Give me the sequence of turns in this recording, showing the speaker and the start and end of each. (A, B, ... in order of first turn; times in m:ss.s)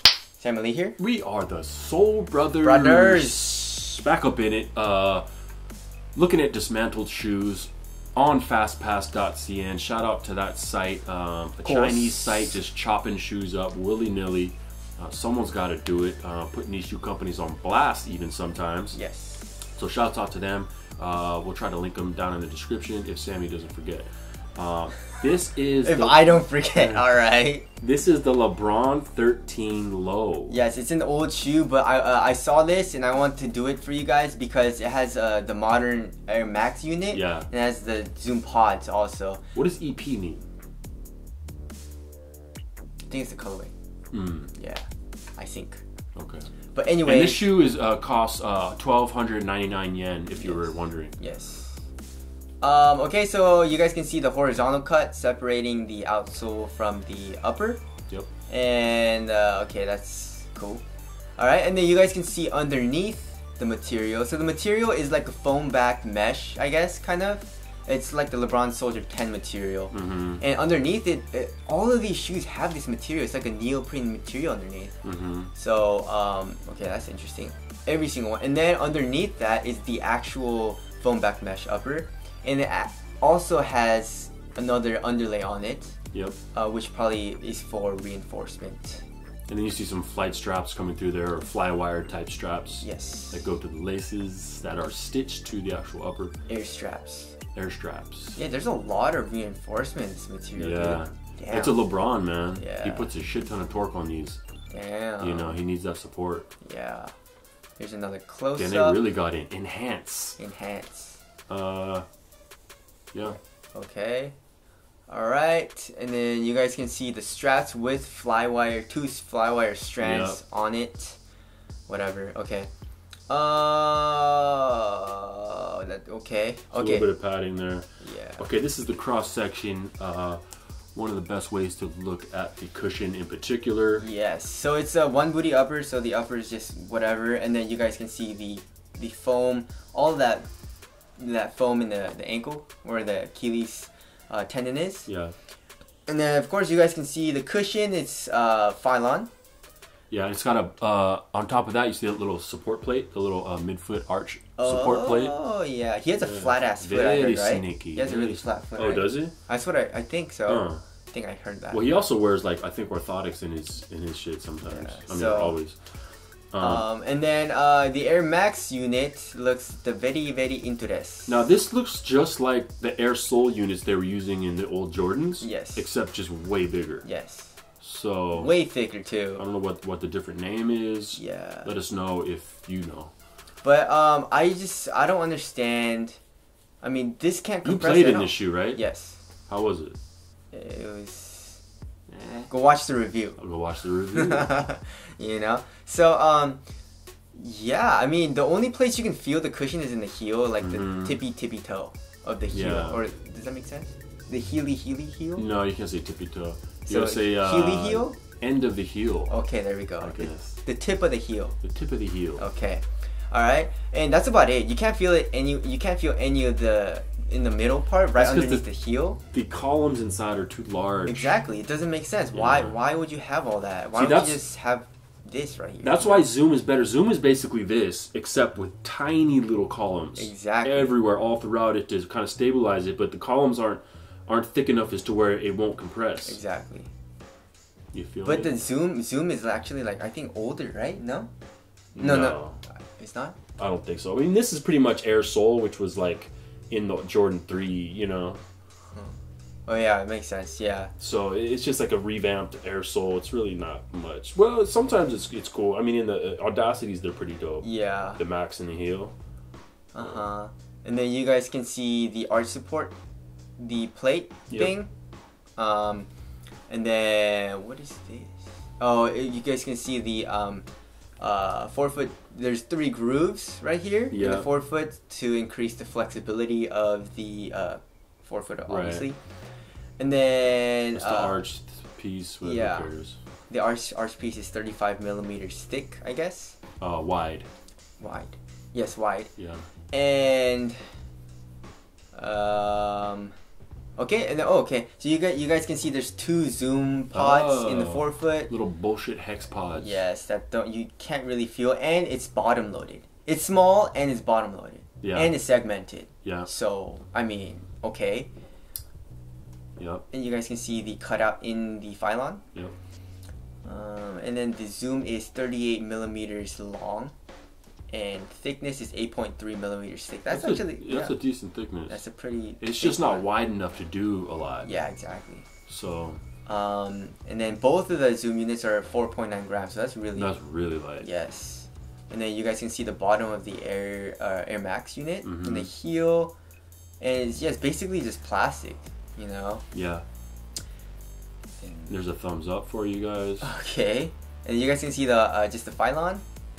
0:00.4-0:01.0 A
0:01.0-0:05.2 B
0:02.6-0:03.6 A
0:06.2-0:19.0 B
0:11.6-0:12.6 A
0:18.9-0:19.5 A
0:19.8-0:27.0 B
0:25.8-0:27.7 A
0:27.8-0:30.6 B
0:30.5-0:39.4 A
0:37.1-0:37.5 B
0:39.6-0:40.4 B
0:43.1-0:43.7 A
0:44.1-0:44.5 B
0:44.5-0:44.8 A
0:45.4-0:45.8 A
0:46.2-0:46.5 B
0:46.7-0:47.5 A
0:47.0-0:51.2 B
0:50.4-0:51.8 A
0:52.6-0:57.8 A
0:58.5-1:00.8 A
1:01.4-1:15.0 A
1:09.9-1:10.4 B
1:15.0-1:15.5 B
1:15.5-1:26.0 A
1:26.1-1:26.4 B
1:26.5-1:29.0 A
1:29.5-1:36.4 B
1:32.8-1:33.4 A
1:36.5-1:37.4 A
1:37.6-1:38.4 B
1:38.4-1:41.9 A
1:40.6-1:44.4 B
1:42.6-1:43.1 A
1:44.7-1:45.6 A
1:45.2-1:46.5 B
1:46.6-1:47.1 A
1:47.8-1:49.0 A
1:48.6-1:50.4 B
1:50.4-1:51.2 A
1:51.5-1:52.0 B
1:53.7-1:54.3 A
1:55.1-2:01.2 A
2:00.0-2:00.4 B
2:01.9-2:02.7 A
2:03.3-2:07.1 A
2:06.7-2:10.4 B
2:08.0-2:08.4 A
2:10.9-2:14.1 B
2:14.0-2:20.5 A
2:21.2-2:25.1 A
2:25.1-2:25.4 B
2:26.1-2:29.3 A
2:30.1-2:35.4 B
2:34.6-2:42.0 A
2:36.2-2:39.3 B
2:40.5-2:40.8 B
2:41.7-2:45.8 B
2:44.6-2:45.6 A
2:46.5-2:46.8 B
2:46.6-2:51.4 A
2:51.3-2:57.1 B
2:55.4-2:55.8 A
2:57.0-2:57.6 A
2:57.8-2:58.5 B
2:58.3-2:59.4 A
2:59.4-3:03.1 B
3:01.2-3:01.7 A
3:03.6-3:06.2 A
3:06.8-3:09.2 A
3:07.6-3:08.8 B
3:09.5-3:10.0 B
3:10.5-3:11.6 A
3:12.1-3:12.5 B
3:12.5-3:13.4 A
3:13.4-3:14.6 B
3:14.1-3:16.6 A
3:17.4-3:25.4 A
3:20.6-3:21.2 B
3:22.5-3:23.0 B
3:25.4-3:29.4 B
3:26.9-3:28.2 A
3:29.3-3:31.6 A
3:30.0-3:30.6 B
3:31.6-3:32.4 B
3:32.4-3:39.2 A
3:38.1-3:38.6 B
3:39.3-3:41.3 B
3:41.1-3:46.3 A
3:42.3-3:42.7 B
3:44.0-3:44.4 B
3:45.8-3:56.4 B
3:50.2-3:50.9 A
3:56.2-3:56.9 A
3:57.9-3:58.5 B
3:58.2-4:01.3 A
4:02.0-4:02.6 B
4:02.0-4:03.4 A
4:03.6-4:08.4 B
4:08.9-4:10.9 A
4:11.0-4:19.2 B
4:17.6-4:18.2 A
4:19.9-4:22.9 A
4:23.6-4:24.9 A
4:25.6-4:26.1 A
4:26.7-4:30.6 A
4:31.2-4:39.2 A
4:34.1-4:34.5 B
4:38.7-4:39.1 B
4:40.0-4:41.4 A
4:41.0-4:43.2 B
4:42.4-4:42.9 A
4:43.5-4:46.6 A
4:46.8-4:47.5 B
4:48.0-4:49.3 A
4:49.4-4:49.6 B
4:49.9-4:50.9 A
4:52.1-4:53.3 A
4:54.0-4:58.5 A
4:57.1-5:00.0 B
4:59.8-5:08.3 A
5:05.0-5:05.4 B
5:09.8-5:10.0 B
5:10.1-5:12.4 A
5:13.6-5:17.1 A
5:17.9-5:21.2 A
5:20.3-5:22.0 B
5:21.9-5:23.3 A
5:22.6-5:24.7 B
5:24.6-5:25.5 A
5:25.7-5:26.2 B
5:26.5-5:30.3 A
5:30.2-5:31.1 B
5:31.0-5:36.3 A
5:35.2-5:35.7 B
5:37.0-5:39.6 A
5:39.7-5:40.0 B
5:41.6-5:41.9 A
5:41.9-5:43.5 B
5:43.4-5:46.2 A